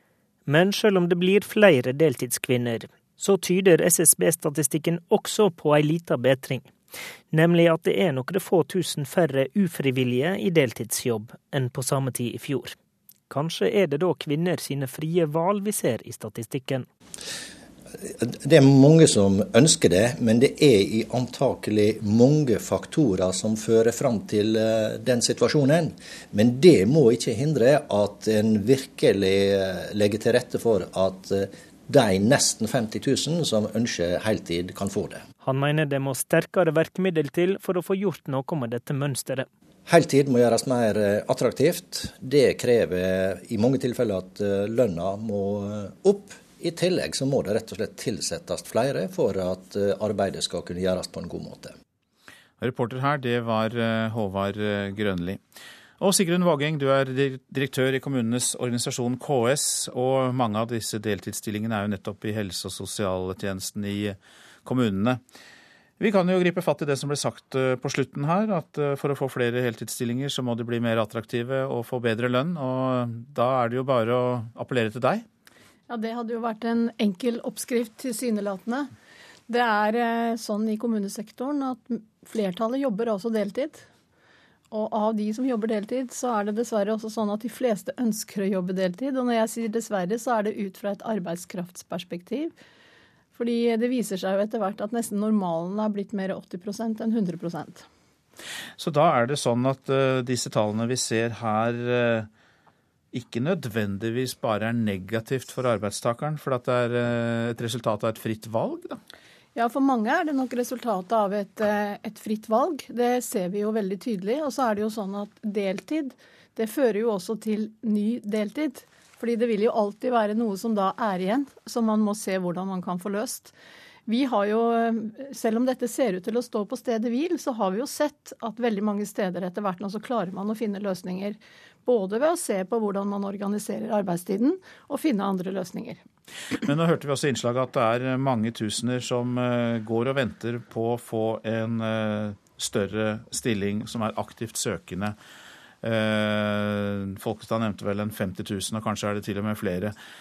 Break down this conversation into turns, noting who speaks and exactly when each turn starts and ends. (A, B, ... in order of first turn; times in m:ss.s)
0:00.5-0:06.7 A
0:07.3-0:12.8 A
0:13.3-0:16.9 A
0:18.0-0:35.2 B
0:35.4-0:39.5 A
0:39.9-0:51.8 B
0:52.6-0:55.4 C
0:56.0-1:05.2 C
1:06.0-1:15.2 C
1:15.9-1:18.9 D
1:19.5-1:23.9 D
1:24.7-1:32.5 D
1:33.4-1:37.8 D
1:38.8-1:42.3 C
1:43.1-1:49.0 C
1:49.6-2:03.5 D
2:04.1-2:16.0 D
2:16.6-2:25.2 C
2:25.8-2:30.0 C